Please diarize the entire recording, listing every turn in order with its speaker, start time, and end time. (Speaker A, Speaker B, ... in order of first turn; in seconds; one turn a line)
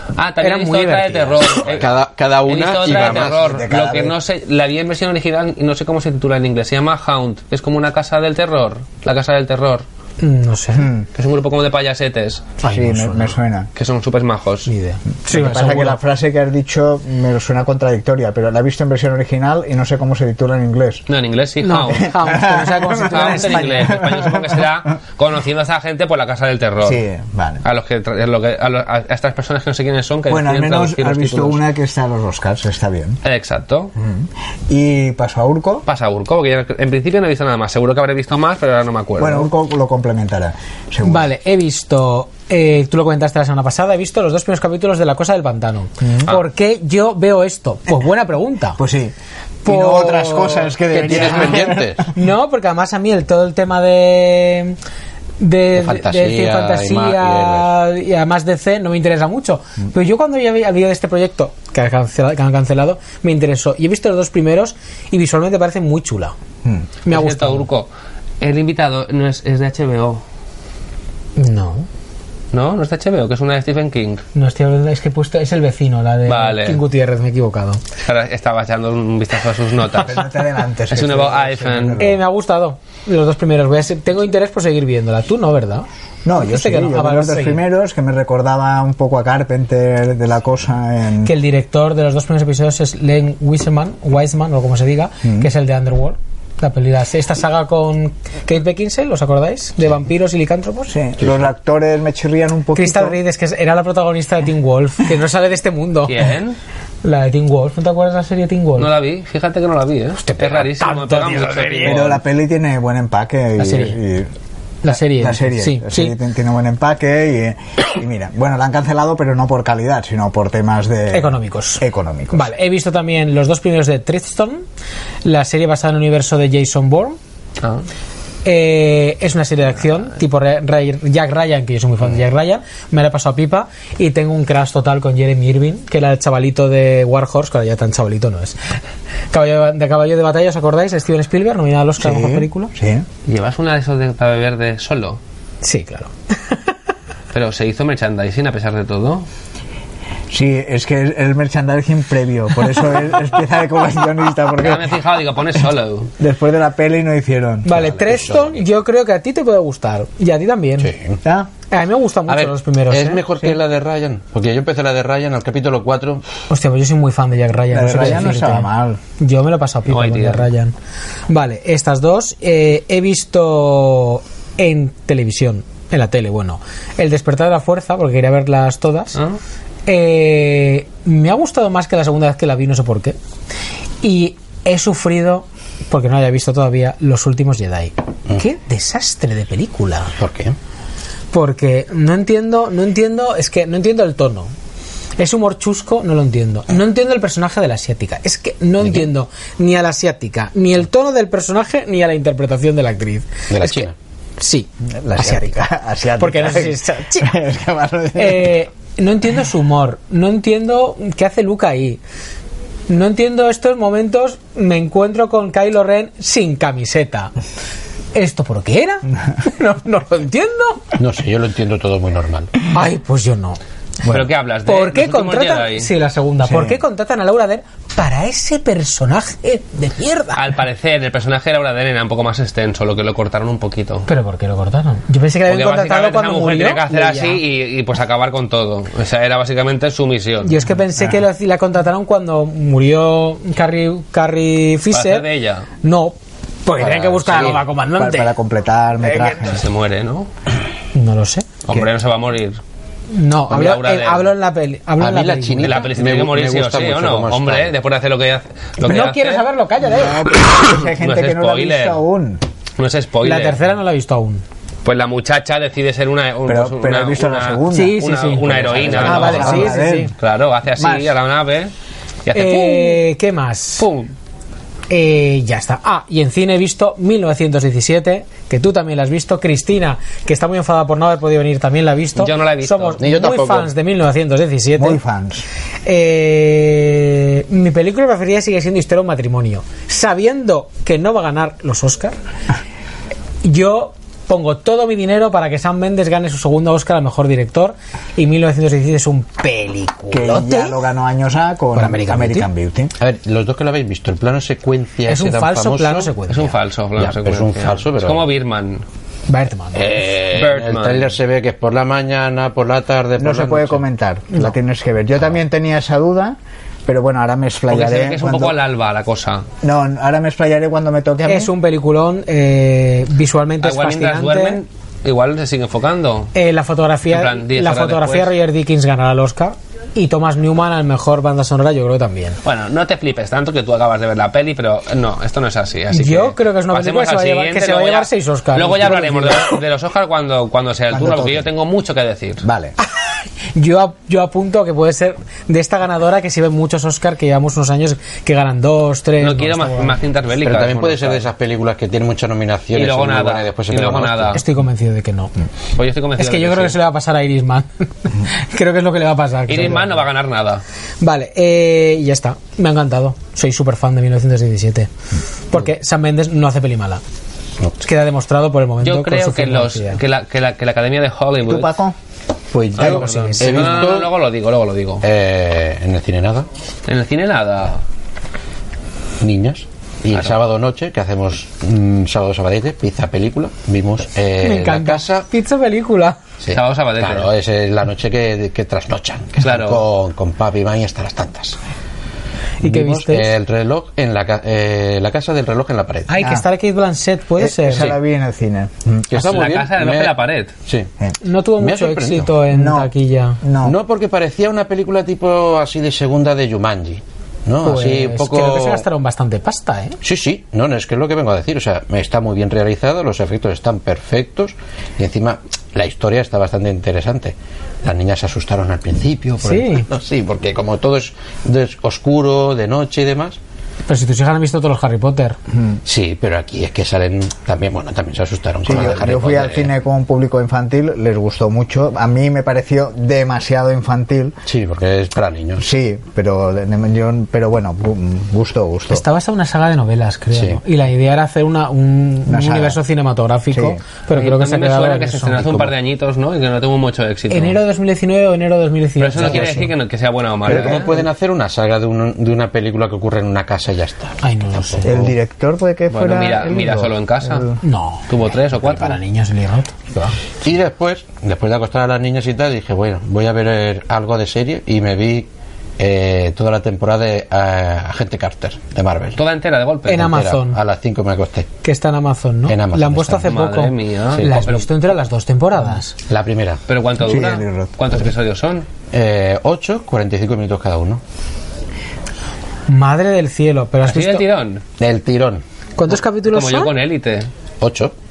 Speaker A: 0.1-1.9
Speaker B: 0.4-1.6
Speaker C: 1.6-3.6
Speaker A: 2.5-9.8
Speaker D: 3.0-4.2
Speaker B: 10.2-10.9
Speaker D: 10.8-11.1
Speaker A: 11.1-12.5
Speaker B: 12.6-13.3
Speaker D: 12.6-13.7
Speaker A: 13.7-14.7
Speaker B: 14.7-16.0
Speaker D: 15.3-21.1
Speaker A: 21.1-27.0
Speaker B: 21.6-24.0
Speaker D: 21.9-24.7
Speaker D: 26.8-27.6
Speaker A: 27.6-31.6
Speaker D: 30.3-33.2
Speaker A: 33.2-33.9
Speaker D: 34.0-35.9
Speaker A: 35.9-39.5
Speaker D: 39.2-41.3
Speaker B: 41.0-48.8
Speaker D: 46.0-46.3
Speaker D: 48.8-49.1
Speaker D: 49.6-52.1
Speaker B: 49.6-54.8
Speaker C: 50.9-52.1
Speaker B: 55.4-66.3
Speaker C: 55.7-57.7
Speaker B: 67.0-67.7
Speaker A: 67.1-67.9
Speaker A: 68.4-70.2
Speaker B: 71.4-71.9
Speaker A: 72.5-74.2
Speaker B: 74.3-77.8
Speaker A: 76.3-76.8
Speaker A: 78.0-80.3
Speaker D: 79.9-82.2
Speaker A: 80.9-82.0
Speaker B: 82.0-87.6
Speaker D: 86.2-91.3
Speaker B: 91.2-100.9
Speaker D: 95.2-95.5
Speaker D: 100.9-103.2
Speaker B: 102.7-106.2
Speaker A: 106.0-106.6
Speaker B: 107.0-108.9
Speaker A: 108.8-112.2
Speaker B: 110.2-112.2
Speaker D: 111.8-114.3
Speaker B: 113.6-114.0
Speaker B: 114.8-116.1
Speaker D: 114.9-122.5
Speaker B: 121.1-124.6
Speaker B: 125.2-127.2
Speaker B: 128.4-138.6
Speaker B: 139.3-142.7
Speaker D: 142.0-143.1
Speaker A: 143.2-145.2
Speaker B: 145.6-146.7
Speaker A: 147.3-149.2
Speaker D: 150.3-155.0
Speaker A: 154.6-156.1
Speaker D: 156.2-157.9
Speaker B: 157.6-160.9
Speaker C: 157.8-158.7
Speaker C: 160.8-161.2
Speaker D: 161.2-161.5
Speaker B: 161.7-163.5
Speaker C: 162.3-166.2
Speaker B: 166.5-170.7
Speaker D: 167.7-169.0
Speaker A: 169.9-170.5
Speaker B: 171.3-179.2
Speaker B: 179.9-183.2
Speaker B: 184.0-190.1
Speaker C: 190.1-190.6
Speaker B: 191.3-194.5
Speaker B: 195.2-203.9
Speaker C: 203.5-203.9
Speaker B: 204.4-205.7
Speaker D: 205.0-208.6
Speaker B: 206.2-207.4
Speaker B: 208.1-212.0
Speaker B: 212.9-217.3
Speaker B: 218.1-220.8
Speaker C: 221.0-222.5
Speaker B: 222.7-223.6
Speaker A: 224.1-225.9
Speaker B: 224.6-230.5
Speaker D: 226.4-226.8
Speaker A: 230.3-234.1
Speaker B: 234.1-237.4
Speaker A: 235.5-240.6
Speaker B: 240.4-245.3
Speaker D: 241.0-241.2
Speaker A: 244.9-245.7
Speaker B: 245.8-248.3
Speaker C: 246.8-247.7
Speaker D: 247.9-249.6
Speaker B: 249.0-249.6
Speaker A: 249.3-250.3
Speaker B: 250.9-251.5
Speaker A: 251.6-252.6
Speaker B: 253.1-255.8
Speaker A: 253.5-254.3
Speaker C: 255.0-257.7
Speaker A: 255.6-259.4
Speaker B: 258.8-260.3
Speaker D: 259.9-262.4
Speaker A: 260.4-262.0
Speaker A: 262.8-263.6
Speaker B: 263.2-264.4
Speaker A: 264.8-271.7
Speaker D: 266.4-270.1
Speaker B: 267.7-270.1
Speaker C: 268.8-269.5
Speaker D: 270.8-271.1
Speaker A: 272.2-273.0
Speaker B: 272.3-273.9
Speaker A: 273.8-274.1
Speaker B: 274.9-285.0
Speaker A: 282.2-283.0
Speaker C: 283.0-283.7
Speaker D: 284.8-285.4
Speaker B: 285.8-292.1
Speaker B: 293.4-300.8
Speaker D: 300.1-302.9
Speaker B: 301.7-302.5
Speaker C: 303.0-306.1
Speaker B: 305.1-306.6
Speaker A: 306.3-308.8
Speaker C: 307.0-308.3
Speaker B: 309.3-310.0
Speaker C: 309.7-313.8
Speaker A: 310.3-311.1
Speaker D: 313.2-318.6
Speaker A: 317.7-319.4
Speaker D: 319.6-321.5
Speaker B: 321.2-324.6
Speaker A: 323.6-326.3
Speaker B: 326.3-332.4
Speaker A: 327.1-328.3
Speaker A: 332.4-342.4
Speaker B: 335.9-339.6
Speaker D: 340.9-341.5
Speaker D: 342.4-342.8
Speaker B: 342.8-350.0
Speaker A: 349.2-351.3
Speaker C: 350.4-354.4
Speaker A: 352.7-354.4
Speaker B: 354.3-355.3
Speaker A: 355.8-356.8
Speaker B: 356.2-360.0
Speaker A: 359.5-360.6
Speaker B: 361.0-364.9
Speaker B: 365.5-367.0
Speaker B: 367.8-370.0
Speaker A: 368.8-371.7
Speaker D: 371.4-371.9
Speaker C: 372.5-374.1
Speaker A: 372.8-375.0
Speaker B: 372.8-373.8
Speaker C: 375.0-376.5
Speaker A: 376.9-377.8
Speaker C: 379.2-385.2
Speaker B: 384.4-386.2
Speaker C: 386.4-391.6
Speaker A: 386.5-387.3
Speaker A: 389.4-389.8
Speaker B: 392.6-393.3
Speaker C: 392.6-396.1
Speaker B: 396.1-397.9
Speaker D: 397.4-399.1
Speaker C: 399.1-400.9
Speaker A: 399.1-400.5
Speaker B: 401.2-403.4
Speaker C: 401.6-402.4
Speaker D: 402.5-403.8
Speaker C: 403.6-408.9
Speaker B: 407.6-410.0
Speaker C: 410.0-423.4
Speaker B: 419.4-419.9
Speaker B: 423.9-425.4
Speaker D: 425.5-425.8
Speaker C: 425.8-429.7
Speaker D: 428.6-434.3
Speaker C: 434.4-435.6
Speaker D: 435.6-439.0
Speaker B: 438.9-445.7
Speaker C: 440.3-440.6
Speaker D: 442.3-442.8
Speaker D: 443.5-443.8
Speaker A: 444.1-447.6
Speaker B: 447.3-449.7
Speaker A: 449.0-450.9
Speaker C: 449.1-449.6
Speaker C: 450.4-455.1
Speaker D: 450.5-450.9
Speaker B: 454.2-455.0
Speaker D: 454.8-457.6
Speaker A: 455.9-457.5
Speaker B: 457.6-458.1
Speaker A: 458.1-459.0
Speaker B: 458.6-460.2
Speaker C: 460.4-465.3
Speaker C: 465.8-469.2
Speaker A: 469.1-470.1
Speaker B: 469.9-470.6
Speaker C: 469.9-471.5
Speaker B: 471.6-475.9
Speaker C: 472.5-473.4
Speaker A: 473.2-474.7
Speaker C: 474.1-474.4
Speaker C: 476.1-476.6
Speaker A: 476.7-478.7
Speaker D: 477.0-477.9
Speaker C: 478.9-481.0
Speaker B: 482.7-484.2
Speaker A: 483.9-484.6
Speaker C: 484.8-485.4
Speaker B: 485.8-486.7
Speaker A: 486.3-487.3
Speaker C: 487.6-487.9